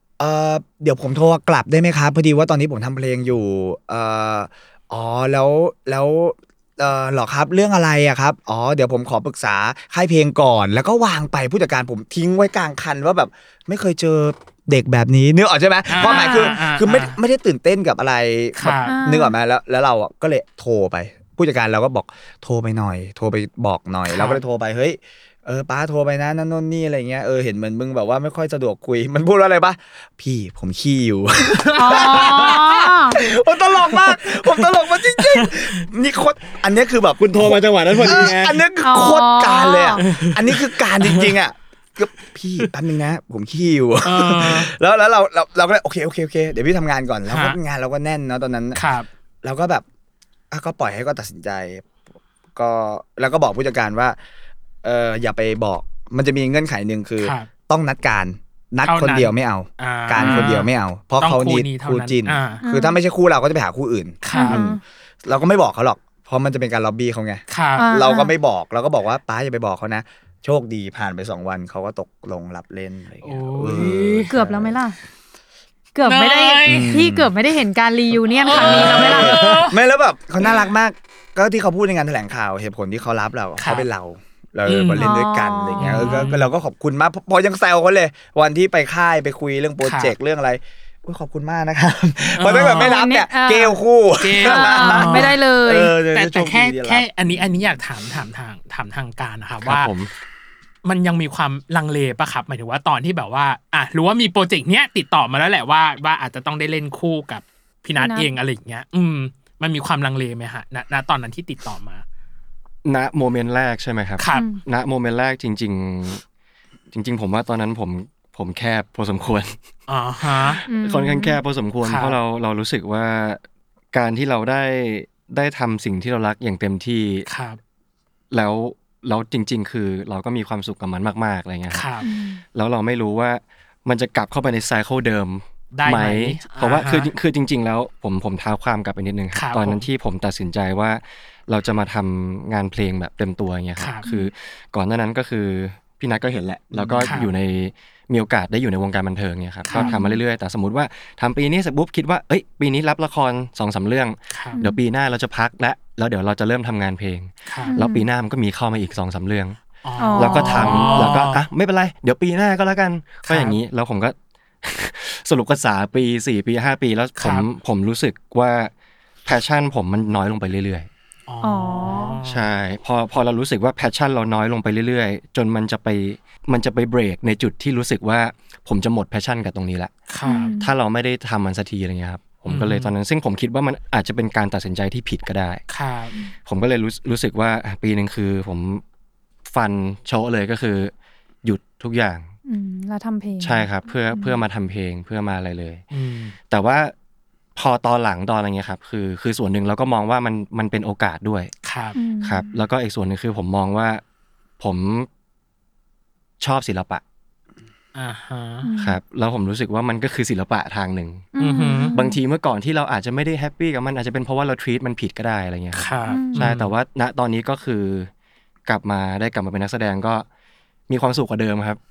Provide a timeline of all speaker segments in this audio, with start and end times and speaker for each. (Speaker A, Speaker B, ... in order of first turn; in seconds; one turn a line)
Speaker A: 0.2-48.8
Speaker B: 15.9-17.2
Speaker B: 18.6-18.9
Speaker C: 18.8-19.3
Speaker B: 24.1-24.4
Speaker C: 31.8-33.2
Speaker B: 31.9-32.6
Speaker B: 35.1-35.8
Speaker D: 37.2-38.6
Speaker C: 38.8-40.0
Speaker B: 40.0-41.3
Speaker B: 44.0-44.7
Speaker B: 47.3-47.6
Speaker B: 48.7-49.1
Speaker A: 49.4-49.8
Speaker A: 50.5-51.9
Speaker A: 52.5-54.2
Speaker A: 54.8-74.8
Speaker B: 57.2-57.5
Speaker B: 58.8-62.6
Speaker C: 60.2-60.5
Speaker C: 62.6-63.0
Speaker B: 64.2-64.6
Speaker C: 64.3-64.8
Speaker B: 67.5-67.9
Speaker C: 67.8-68.3
Speaker B: 73.2-74.3
Speaker D: 73.7-74.1
Speaker C: 74.3-75.0
Speaker C: 75.9-79.4
Speaker B: 76.0-77.1
Speaker A: 76.6-77.3
Speaker B: 78.4-79.8
Speaker A: 78.5-97.5
Speaker B: 83.6-83.9
Speaker B: 84.7-85.1
Speaker C: 85.0-86.2
Speaker B: 85.8-86.5
Speaker B: 89.8-90.1
Speaker B: 92.3-93.0
Speaker C: 92.7-93.8
Speaker B: 94.2-95.4
Speaker C: 94.4-95.9
Speaker B: 96.1-99.9
Speaker D: 99.6-100.1
Speaker B: 100.8-112.0
Speaker C: 108.0-108.3
Speaker D: 112.8-116.2
Speaker B: 114.2-114.5
Speaker C: 114.3-114.6
Speaker D: 116.9-119.5
Speaker B: 119.9-120.6
Speaker D: 120.2-123.4
Speaker C: 120.7-121.4
Speaker B: 121.8-122.2
Speaker D: 123.9-127.3
Speaker B: 127.3-127.6
Speaker D: 128.3-131.9
Speaker B: 131.7-132.1
Speaker C: 132.0-132.4
Speaker D: 132.5-159.6
Speaker B: 135.7-137.1
Speaker B: 139.3-139.8
Speaker B: 143.8-144.0
Speaker C: 144.0-144.3
Speaker A: 146.7-147.2
Speaker B: 147.0-147.3
Speaker B: 149.7-149.9
Speaker C: 149.8-150.2
Speaker B: 154.3-154.6
Speaker C: 154.5-154.8
Speaker B: 157.4-157.8
Speaker C: 157.6-158.0
Speaker B: 159.8-161.4
Speaker C: 159.9-161.1
Speaker D: 160.2-168.7
Speaker B: 163.2-163.6
Speaker B: 167.2-167.5
Speaker D: 169.2-170.9
Speaker B: 171.3-172.5
Speaker C: 171.4-172.2
Speaker D: 172.2-179.9
Speaker B: 180.1-180.5
Speaker C: 180.2-180.7
Speaker D: 180.6-185.6
Speaker B: 182.5-182.9
Speaker B: 185.7-186.1
Speaker D: 186.4-188.8
Speaker D: 189.5-190.9
Speaker D: 191.4-192.3
Speaker C: 192.4-194.4
Speaker D: 193.4-195.8
Speaker B: 195.9-196.3
Speaker D: 196.5-196.9
Speaker D: 197.6-201.5
Speaker B: 201.6-201.9
Speaker C: 201.9-202.5
Speaker D: 202.2-204.0
Speaker D: 204.6-205.1
Speaker D: 206.4-207.0
Speaker B: 207.9-208.7
Speaker C: 208.6-209.0
Speaker D: 208.8-211.3
Speaker C: 211.3-212.2
Speaker B: 211.4-211.9
Speaker D: 211.9-218.1
Speaker B: 215.7-216.7
Speaker C: 216.1-216.5
Speaker D: 218.7-220.2
Speaker D: 220.9-221.8